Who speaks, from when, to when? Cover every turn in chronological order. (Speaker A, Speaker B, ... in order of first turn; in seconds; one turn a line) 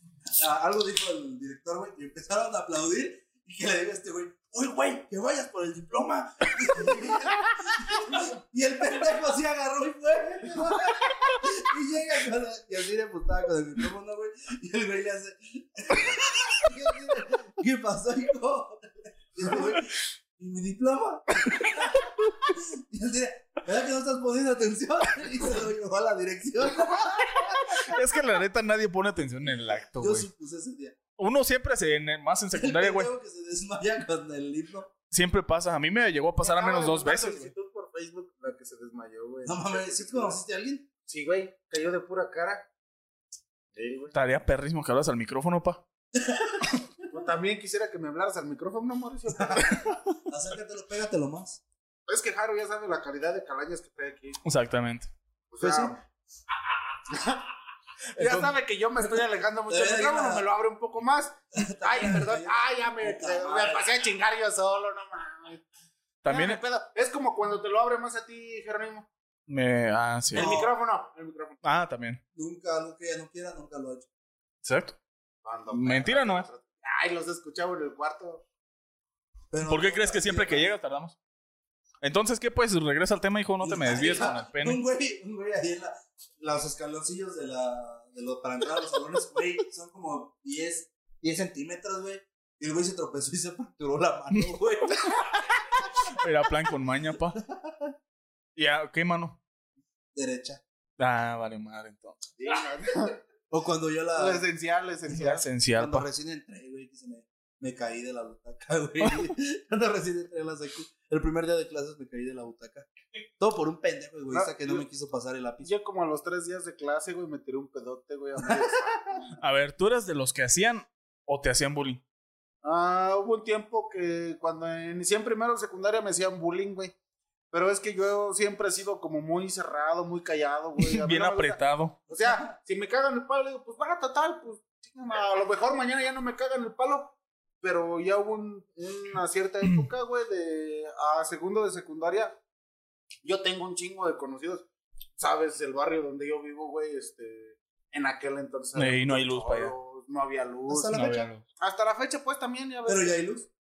Speaker A: 0.4-27.9
Speaker B: 27.5-30.3
Speaker A: 29.9-30.9
Speaker B: 31.2-33.1
Speaker A: 32.5-34.9
Speaker B: 35.1-37.5
Speaker C: 36.4-40.4
Speaker A: 39.4-40.9
Speaker C: 41.1-42.7
Speaker C: 43.7-44.1
Speaker B: 44.1-45.8
Speaker A: 46.3-46.6
Speaker C: 47.1-49.9
Speaker A: 49.4-51.6
Speaker B: 49.8-50.1
Speaker C: 52.1-54.4
Speaker B: 54.4-55.1
Speaker C: 55.5-56.0
Speaker A: 55.6-55.9
Speaker C: 57.0-57.5
Speaker B: 58.1-58.5
Speaker C: 58.2-65.6
Speaker A: 59.6-60.5
Speaker A: 61.5-63.9
Speaker B: 66.2-66.6
Speaker C: 66.3-69.1
Speaker B: 69.5-70.5
Speaker A: 70.3-70.7
Speaker C: 70.3-71.6
Speaker B: 71.6-72.2
Speaker A: 72.3-74.1
Speaker B: 74.6-75.0
Speaker C: 75.4-78.4
Speaker B: 75.7-76.5
Speaker A: 79.5-80.7
Speaker B: 79.6-81.2
Speaker B: 82.0-84.8
Speaker A: 83.6-95.3
Speaker B: 96.1-97.4
Speaker A: 97.4-97.9
Speaker B: 98.5-99.4
Speaker A: 100.1-100.6
Speaker B: 101.0-102.3
Speaker C: 102.4-103.2
Speaker A: 103.5-104.4
Speaker C: 104.2-105.4
Speaker B: 105.1-106.1
Speaker A: 105.8-112.9
Speaker A: 113.4-115.7
Speaker C: 114.3-114.8
Speaker C: 115.6-119.3
Speaker A: 118.4-118.7
Speaker B: 119.4-122.0
Speaker C: 122.6-126.9
Speaker C: 127.5-142.4
Speaker B: 130.8-132.0
Speaker A: 132.1-132.5
Speaker C: 143.2-144.6
Speaker C: 145.2-153.1
Speaker B: 148.7-149.7
Speaker A: 150.7-151.3
Speaker B: 150.9-151.4
Speaker A: 152.8-153.5